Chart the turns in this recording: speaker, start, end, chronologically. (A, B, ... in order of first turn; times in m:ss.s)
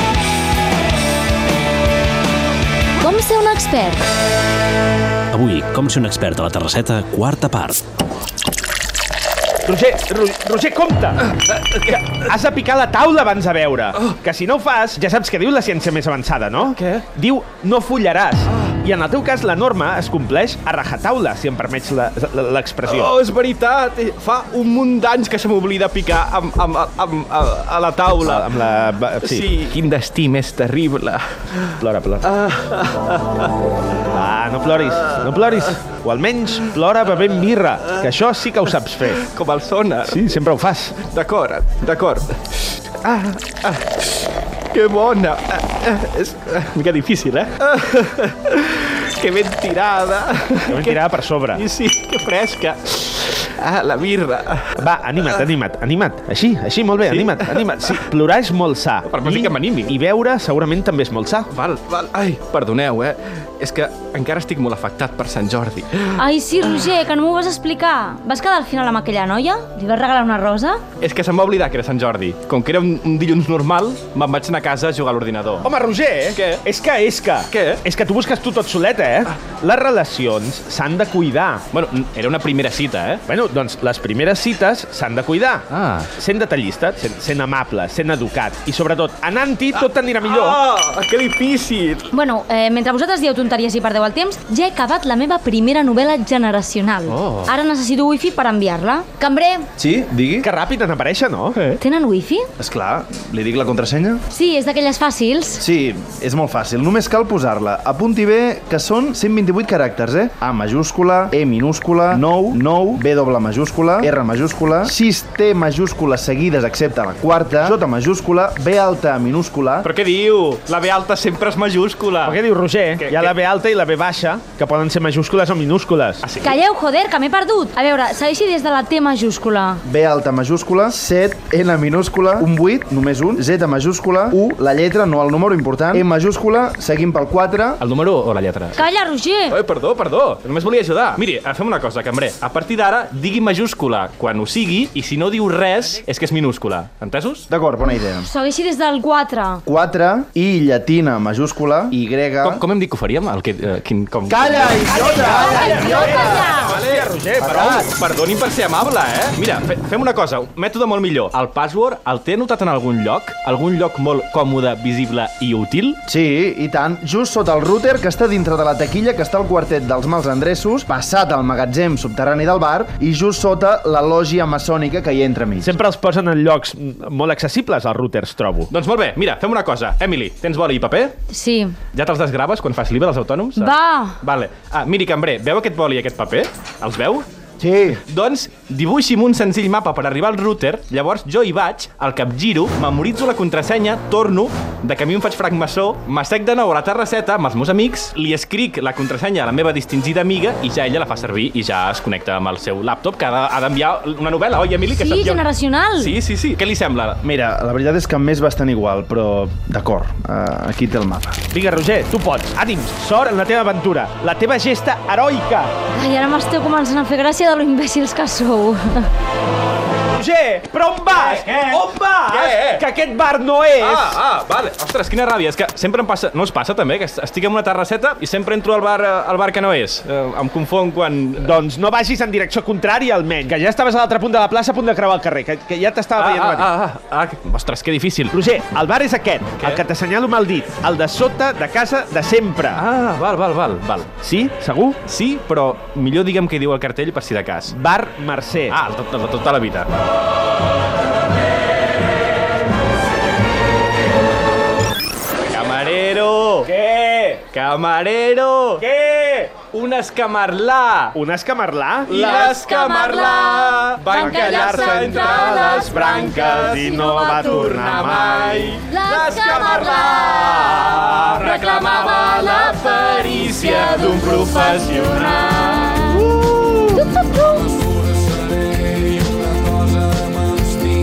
0:03.0-0:04.0 A
0:05.4-0:07.8 B
0:09.6-0:23.1 C
0:16.6-0:17.0 D
0:22.8-0:28.7 D
0:28.2-0:29.5 C
0:29.2-0:33.4 D
0:31.8-0:32.2 C
0:34.1-0:39.2 C
0:39.0-0:40.2 D
0:40.0-0:41.0 C
0:41.0-0:51.0 D
0:50.7-0:51.6 C
0:51.5-0:55.5 D
0:54.8-1:01.5 C
0:57.1-0:58.0 D
0:59.0-0:59.9 D
1:01.5-1:06.2 D
1:06.2-1:10.8 A
1:11.0-1:15.7 D
1:15.6-1:21.6 C
1:16.3-1:16.6 D
1:17.5-1:17.8 D
1:21.7-1:23.2 D
1:23.3-1:30.6 C
1:25.7-1:26.1 D
1:29.7-1:32.1 D
1:32.1-1:39.7 A
1:37.1-1:37.5 D
1:39.8-1:40.5 E
1:40.4-1:41.6 C
1:41.5-1:41.8 D
1:41.8-1:42.5 A
1:42.6-1:44.2 E
1:44.3-1:45.6 A
1:45.6-1:59.9 E
1:59.8-2:02.4 D
2:02.2-2:06.2 C
2:03.0-2:03.3 D
2:06.2-2:06.6 D
2:06.4-2:09.8 A
2:09.8-2:17.8 E
2:17.8-2:18.8 D
2:18.8-2:19.6 A
2:19.5-2:27.4 D
2:27.5-2:28.3 E
2:28.0-2:29.6 A
2:29.6-2:32.6 E
2:32.4-2:35.4 D
2:34.3-2:36.4 E
2:34.9-2:37.9 C
2:35.2-2:36.8 A
2:36.1-2:46.0 D
2:37.4-2:37.9 E
2:46.1-2:55.8 E
2:55.6-2:58.7 C
2:58.7-3:01.2 D
3:01.3-3:01.8 A
3:01.9-3:07.2 D
3:03.6-3:04.2 A
3:07.6-3:08.0 E
3:08.1-3:27.2 D
3:24.9-3:26.1 A
3:27.2-3:31.4 E
3:31.5-3:35.7 C
3:35.9-3:39.1 A
3:40.1-3:44.2 C
3:41.1-3:42.8 D
3:43.8-3:51.6 D
3:51.4-3:56.7 C
3:56.2-3:58.4 D
3:58.3-4:02.8 C
4:02.7-4:04.1 D
4:04.2-4:05.0 C
4:05.0-4:07.7 D
4:07.7-4:08.8 C
4:08.7-4:09.9 D
4:15.5-4:16.7 D
4:16.6-4:17.4 C
4:17.5-4:18.8 D
4:18.8-4:19.5 C
4:19.7-4:21.2 D
4:21.1-4:22.6 C
4:22.1-4:37.0 D
4:22.4-4:36.2 A
4:24.1-4:28.7 C
4:36.9-4:37.7 A